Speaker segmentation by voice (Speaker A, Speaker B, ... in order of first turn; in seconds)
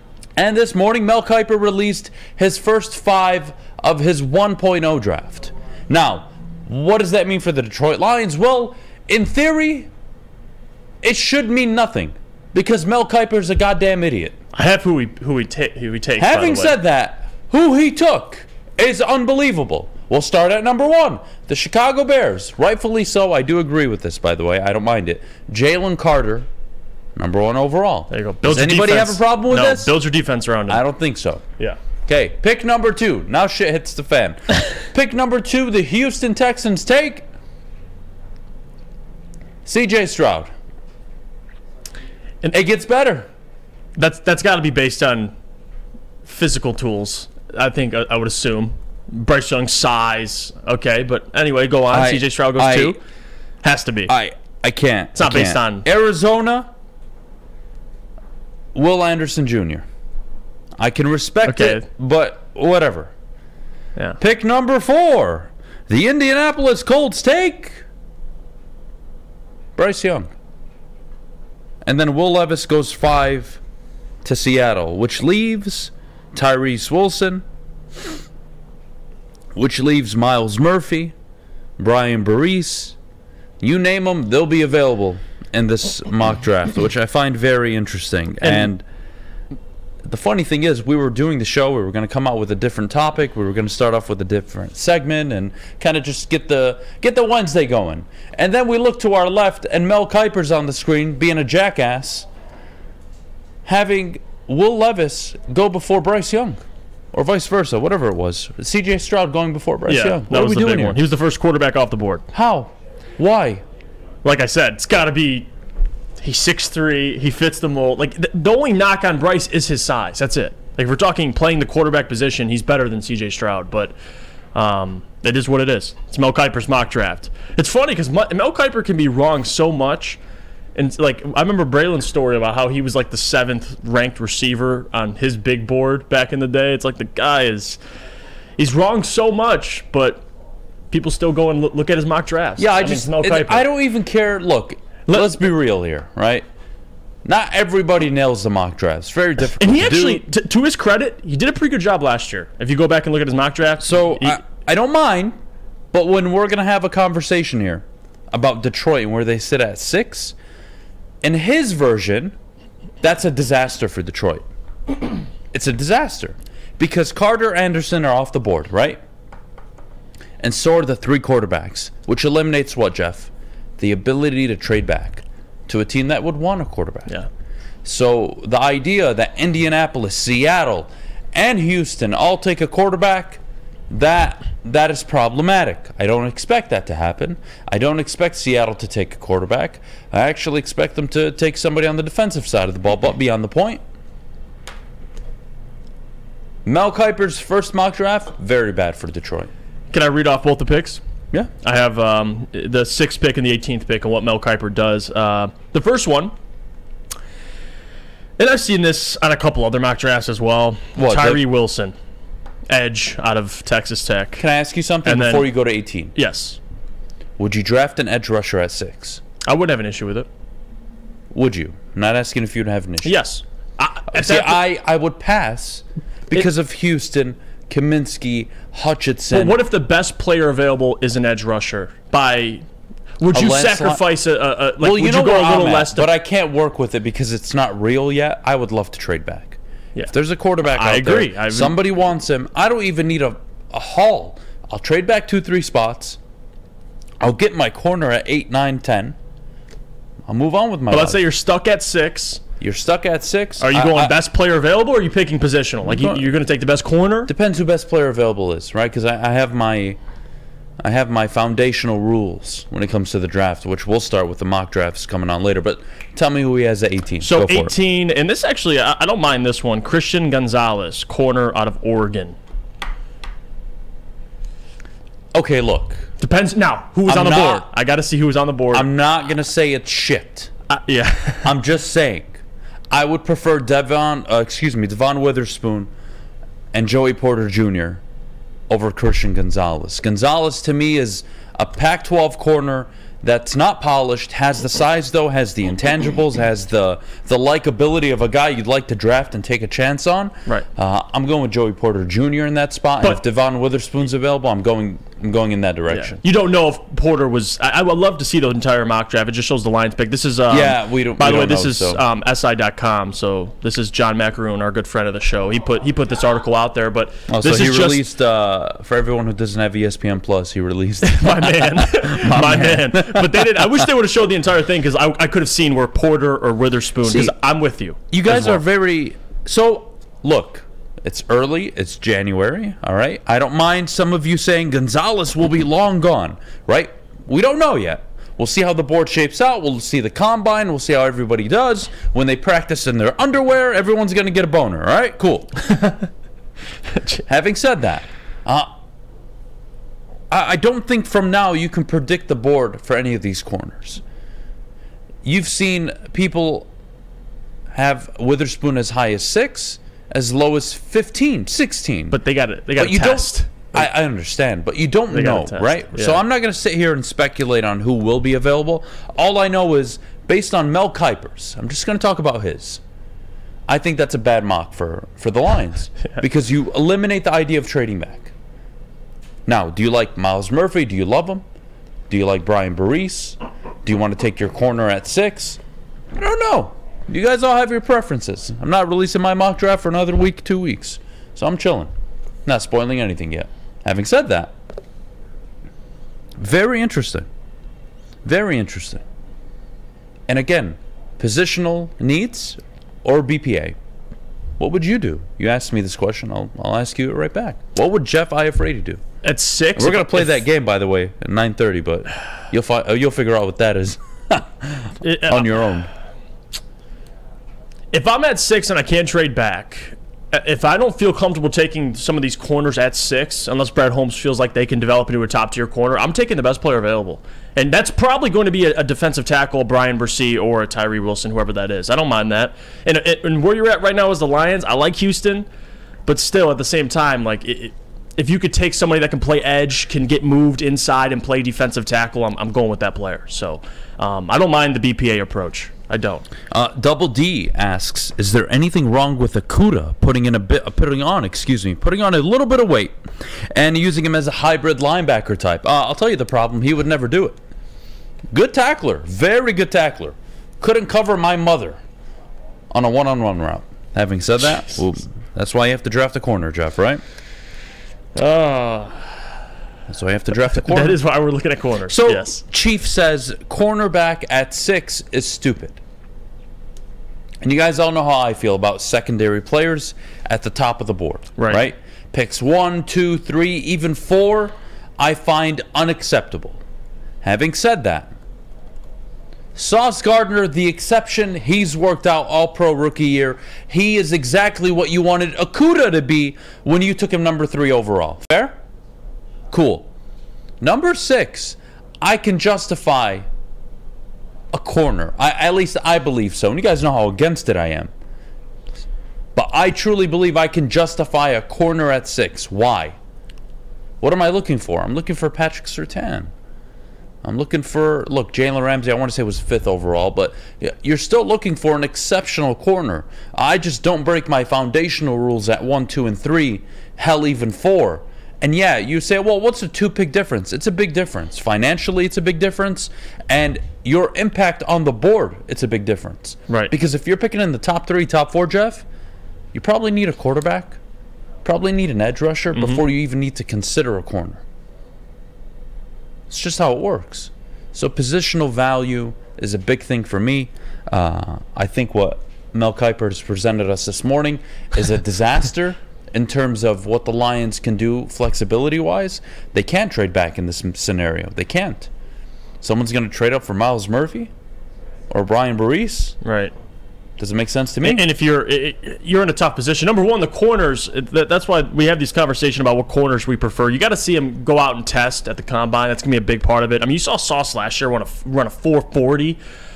Speaker A: 0.4-9.9, 11.0-14.3, 16.2-26.5, 27.1-29.9, 30.7-31.4, 32.0-37.2, 39.6-40.5, 42.4-43.3, 51.9-53.0, 54.1-56.7, 58.7-59.8, 60.8-63.1, 64.2-67.8, 69.8-70.3, 71.8-73.6, 74.2-77.4, 79.5-81.1, 81.8-83.0, 83.6-88.8, 90.0-102.3, 103.7-106.6, 107.1-111.0, 112.3-113.6, 142.6-146.4, 147.2-150.2, 153.8-155.3, 155.9-160.3, 161.2-162.3, 163.0-164.4, 165.5-169.0, 170.4-177.1, 177.8-193.8, 196.7-199.5, 210.9-211.4, 214.4-216.1, 217.4-219.2, 221.3-223.2, 224.1-229.6, 233.3-234.0, 234.8-239.6, 240.1-246.2, 247.2-249.2, 250.3-251.2, 252.6-254.2, 255.8-256.2, 257.3-260.0, 260.8-267.7, 275.3-276.1, 277.1-277.6, 278.7-280.5, 281.4-285.9, 286.7-288.0, 288.7-306.2, 310.5-312.0, 317.3-323.4, 327.0-327.3, 328.1-345.6, 347.2-348.7, 350.3-354.0, 355.2-356.7, 357.7-362.2, 362.8-372.8, 373.7-378.3, 379.5-381.4, 382.1-385.6, 386.1-391.9, 392.4-394.5, 396.4-397.3, 398.2-399.0, 400.3-403.8, 404.6-409.0, 409.8-415.9, 446.5-457.4, 458.3-461.8, 462.7-467.0, 469.9-471.0, 471.9-475.8, 477.4-486.6, 487.2-488.1, 489.5-498.6, 499.5-499.9, 500.6-503.2, 504.5-507.9, 509.3-513.0, 514.0-516.3, 517.2-538.9, 539.5-540.8, 541.4-544.4, 546.3-561.9, 562.6-564.3, 565.1-566.1, 567.2-568.1
Speaker B: 14.5-16.7, 28.1-30.8, 44.0-45.3, 46.2-53.0, 53.6-54.1, 55.1-55.9, 61.5-61.8, 109.9-112.2, 114.2-115.5, 116.2-123.9, 124.5-130.2, 130.7-137.8, 138.6-140.2, 140.9-143.7, 145.1-145.3, 149.6-154.4, 199.9-201.0, 201.6-206.3, 208.4-211.9, 212.7-214.4, 215.0-215.5, 216.1-216.6, 219.5-220.3, 223.0-224.6, 229.3-232.6, 233.2-236.1, 240.6-241.8, 250.9-252.4, 253.6-257.3, 267.2-272.4, 276.2-278.9, 280.7-281.5, 305.9-318.0, 321.0-328.6, 362.1-363.9, 365.1-366.2, 409.2-410.4, 415.0-415.6, 417.9-435.5, 436.1-446.3, 468.1-469.2, 470.4-472.4, 542.5-542.8, 566.2-566.5, 567.8-579.4